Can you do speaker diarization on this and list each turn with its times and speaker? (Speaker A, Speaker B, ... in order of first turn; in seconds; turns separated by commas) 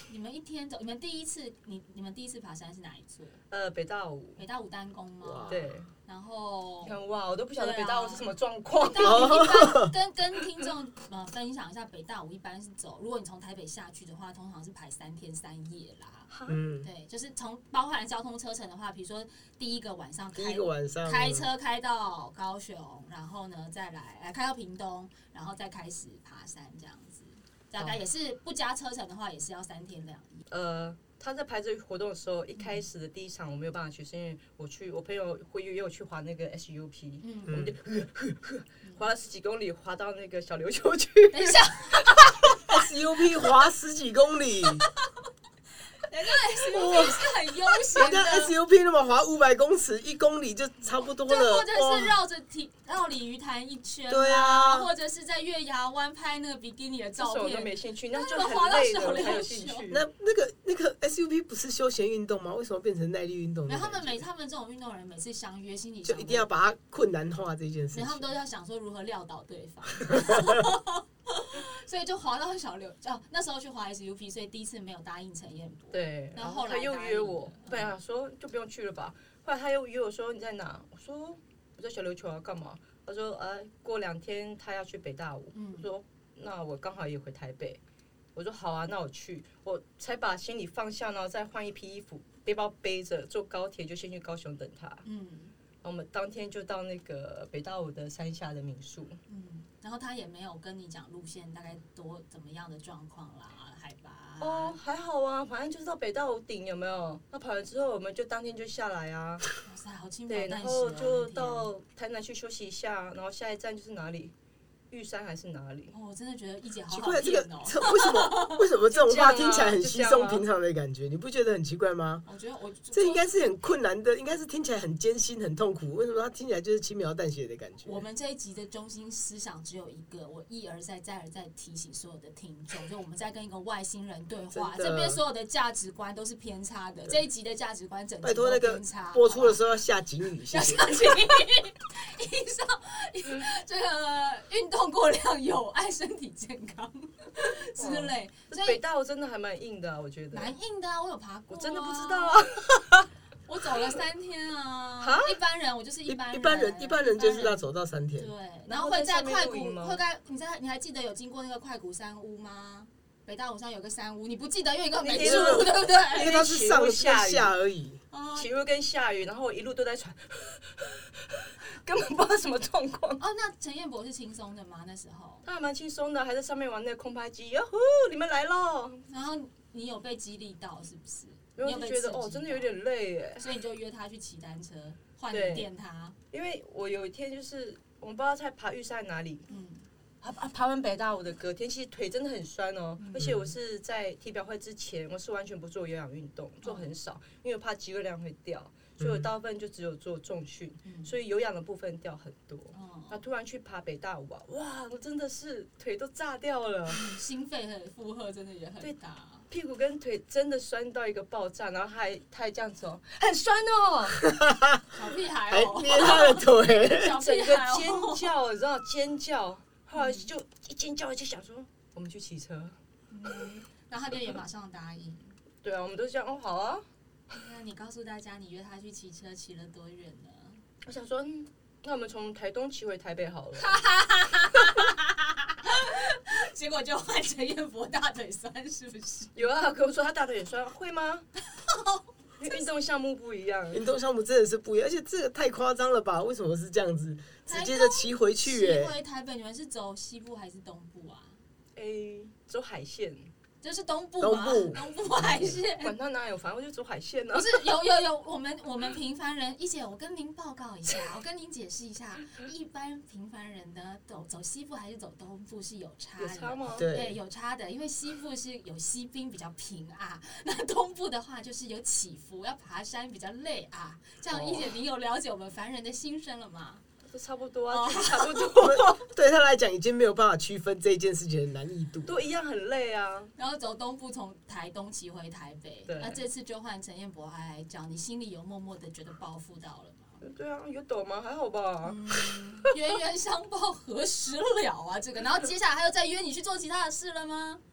Speaker A: 0.1-3.4, Speaker B: 3.5-4.4, Speaker A: 4.4-7.0, Speaker C: 5.2-5.7, Speaker B: 5.5-5.9, Speaker B: 6.8-9.5, Speaker A: 7.6-16.3, Speaker C: 9.0-9.9, Speaker B: 16.3-16.6, Speaker C: 16.5-16.9, Speaker A: 16.8-30.4, Speaker C: 20.4-21.5, Speaker B: 30.5-42.8, Speaker A: 32.6-32.8, Speaker A: 37.2-37.7, Speaker C: 37.5-37.8, Speaker A: 41.3-42.5, Speaker C: 42.7-44.9, Speaker A: 46.1-48.5, Speaker C: 46.7-47.4, Speaker C: 47.9-52.2, Speaker A: 51.2-59.9, Speaker C: 54.1-54.9, Speaker B: 57.2-60.0, Speaker C: 59.9-64.2, Speaker A: 63.7-66.5, Speaker C: 66.0-68.3, Speaker A: 67.9-78.0, Speaker C: 70.1-70.6, Speaker B: 75.9-87.8, Speaker A: 85.5-85.9, Speaker B: 88.3-95.0, Speaker A: 95.0-95.5, Speaker B: 95.8-99.2, Speaker A: 99.3-104.8, Speaker B: 104.4-109.5, Speaker A: 109.6-111.7, Speaker B: 110.3-114.3, Speaker B: 114.9-115.9, Speaker A: 115.9-118.7, Speaker C: 116.9-122.2, Speaker B: 118.9-120.4, Speaker A: 122.3-123.3, Speaker C: 122.9-128.1, Speaker A: 127.8-139.6, Speaker C: 134.5-135.2, Speaker C: 138.2-141.0, Speaker A: 140.5-148.8, Speaker B: 147.8-150.6, Speaker A: 150.3-152.5, Speaker B: 151.5-153.1, Speaker A: 153.5-166.4, Speaker B: 155.0-155.4, Speaker C: 156.1-158.3, Speaker B: 158.7-160.0, Speaker B: 165.0-167.5, Speaker C: 165.2-168.0, Speaker A: 168.1-168.5, Speaker B: 168.3-173.2, Speaker A: 173.2-175.5, Speaker B: 175.4-179.1, Speaker A: 179.1-182.8, Speaker B: 181.6-183.5, Speaker A: 183.4-186.2, Speaker B: 185.3-185.7, Speaker B: 186.3-189.5, Speaker A: 189.5-189.9, Speaker B: 190.2-207.0, Speaker A: 193.0-193.4, Speaker C: 193.2-193.5, Speaker A: 196.6-196.9, Speaker C: 199.0-199.3, Speaker A: 200.8-201.1, Speaker A: 202.7-203.2, Speaker A: 206.9-209.5, Speaker B: 209.5-214.2, Speaker C: 214.2-217.2, Speaker A: 214.9-218.3, Speaker B: 217.2-222.8, Speaker A: 220.0-220.3, Speaker A: 223.1-225.3, Speaker B: 225.6-226.8, Speaker A: 227.3-230.6, Speaker B: 230.8-233.8, Speaker A: 233.6-239.3, Speaker B: 239.3-241.3, Speaker A: 241.6-242.1, Speaker B: 242.4-243.8, Speaker C: 243.7-249.0, Speaker A: 247.5-251.4, Speaker B: 251.8-253.3, Speaker A: 253.6-255.9, Speaker C: 254.2-254.8, Speaker B: 255.7-257.6, Speaker A: 257.3-276.8, Speaker B: 266.2-266.9, Speaker C: 266.8-267.2, Speaker B: 274.3-274.7, Speaker B: 277.1-279.1, Speaker A: 277.7-278.6, Speaker C: 278.6-282.2, Speaker B: 282.1-283.3, Speaker A: 283.4-290.2, Speaker B: 285.9-286.2, Speaker B: 290.2-292.7, Speaker A: 291.8-297.6